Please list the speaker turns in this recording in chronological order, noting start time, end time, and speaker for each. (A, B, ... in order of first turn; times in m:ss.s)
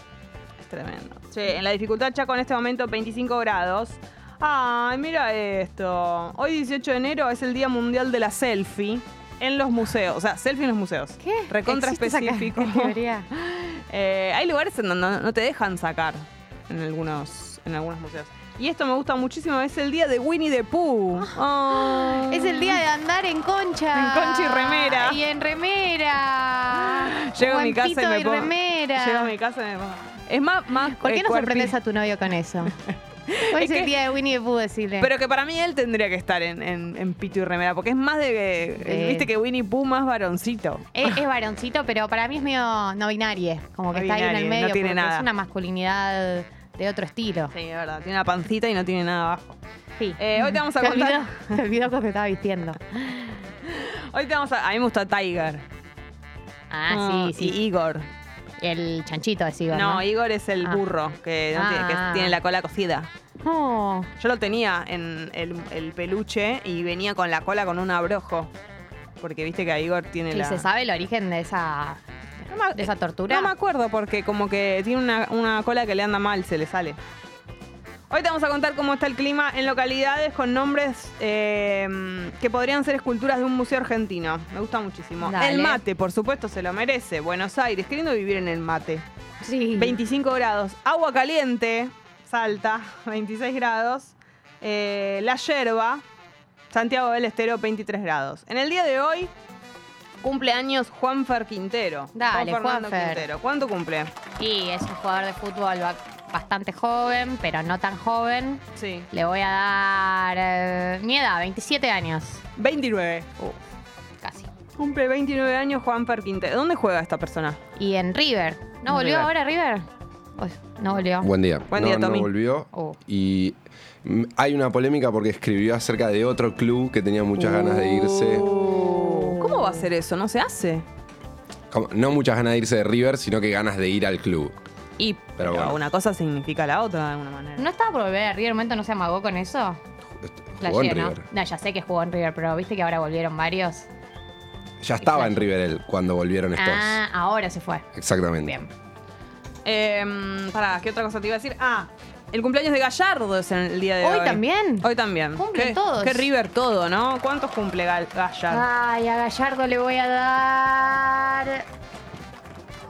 0:00.6-0:22.8 A
0:11.2-0:13.3 B
0:21.2-0:29.3 B
0:23.9-0:25.2 A
0:26.8-0:31.8 A
0:30.9-0:32.8 B
0:32.9-0:33.9 A
0:33.5-0:35.1 B
0:35.0-0:41.2 A
0:38.8-0:39.3 B
0:40.9-0:47.5 B
0:43.9-0:45.3 A
0:47.5-0:49.6 A
0:50.0-0:53.3 B
0:50.2-0:51.6 A
0:53.6-0:55.6 A
0:56.7-0:57.6 B
0:56.9-0:58.1 A
0:58.6-1:00.0 B
0:59.7-1:03.1 A
1:01.5-1:02.4 B
1:03.4-1:04.1 B
1:04.2-1:08.5 A
1:09.2-1:10.7 A
1:10.3-1:13.5 B
1:12.5-1:17.0 A
1:18.1-1:29.0 A
1:25.2-1:25.8 B
1:29.4-1:30.0 B
1:29.8-1:36.0 A
1:36.7-1:39.3 A
1:40.2-1:44.1 A
1:42.2-1:43.3 B
1:44.4-1:52.4 B
1:48.8-1:49.1 A
1:52.6-1:53.5 A
1:54.2-1:54.5 B
1:54.8-1:57.6 A
1:57.8-1:59.8 B
1:58.9-1:59.3 A
2:00.4-2:01.3 B
2:01.2-2:08.5 C
2:01.7-2:02.3 A
2:07.8-2:10.8 A
2:08.5-2:09.8 B
2:11.7-2:14.6 C
2:15.0-2:17.6 A
2:15.4-2:15.8 C
2:17.6-2:19.8 B
2:20.2-2:21.2 C
2:20.6-2:23.9 B
2:24.8-2:27.0 C
2:25.0-2:25.4 B
2:26.6-2:27.8 B
2:28.0-2:28.6 C
2:28.4-2:28.7 B
2:29.6-2:38.6 A
2:34.0-2:36.3 B
2:38.5-2:41.6 B